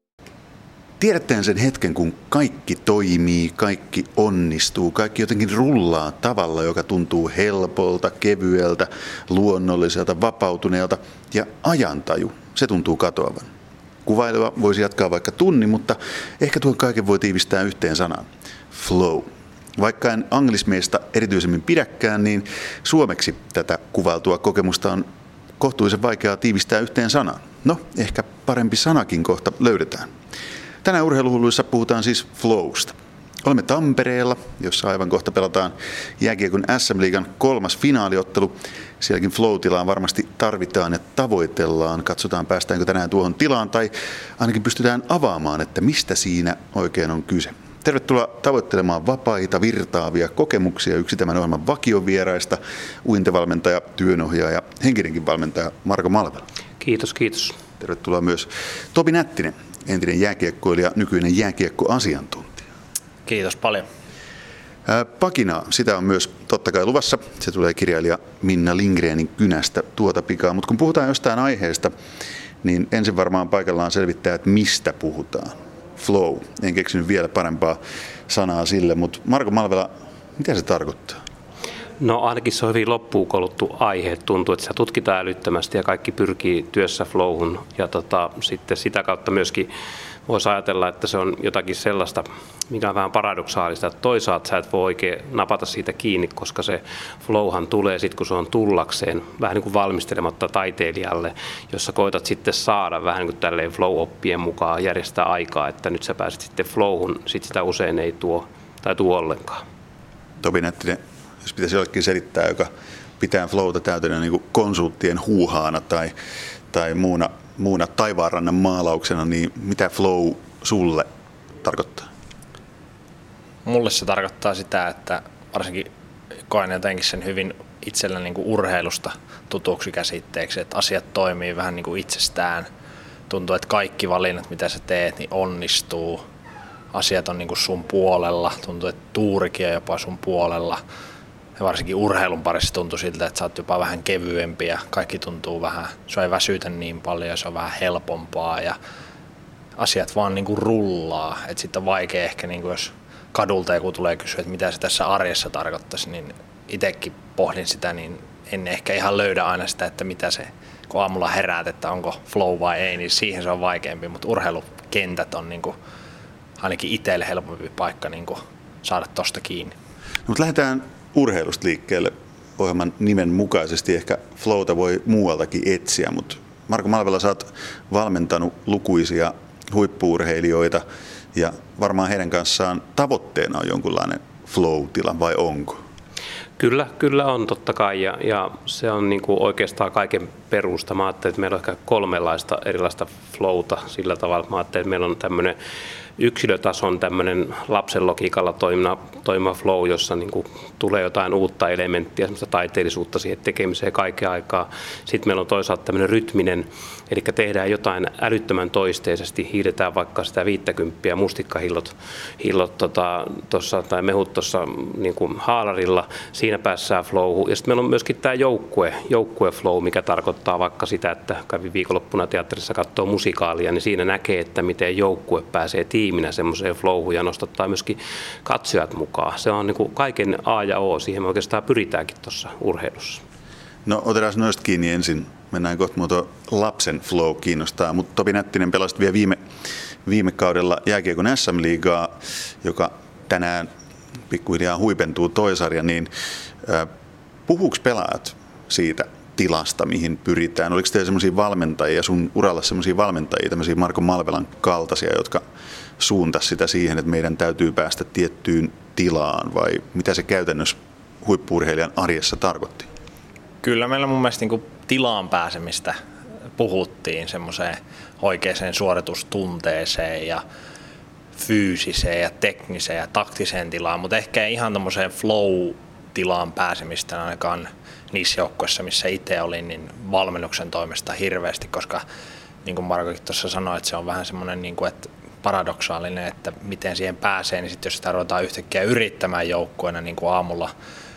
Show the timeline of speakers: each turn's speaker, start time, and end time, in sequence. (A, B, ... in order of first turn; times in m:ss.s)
0:01.0-0:13.5 A
0:14.0-0:25.1 A
0:25.6-0:30.1 A
0:30.8-0:56.4 A
0:56.8-0:57.6 B
0:57.8-1:02.6 A
1:03.3-1:03.8 C
1:04.9-1:11.9 A
1:12.6-1:21.2 A
1:22.0-1:29.7 B
1:30.3-1:49.6 B
1:50.4-1:56.1 A
1:56.7-2:01.1 A
2:01.6-2:02.1 A
2:03.7-2:05.9 C
2:06.5-2:12.7 C
2:13.3-2:16.2 C
2:16.9-2:20.8 C
2:21.6-2:28.8 C
2:29.8-2:45.8 C
2:46.6-2:49.7 C
2:50.3-3:05.8 A
3:06.6-3:15.6 B
3:16.2-3:53.2 B
3:53.9-3:59.4 A
4:00.0-4:03.7 A
4:04.3-4:06.1 A
4:06.6-4:06.9 A
4:07.5-4:15.4 A
4:16.0-4:22.9 A
4:23.6-4:26.0 C
4:26.6-4:30.4 C
4:31.4-4:42.0 C
4:42.6-4:50.7 C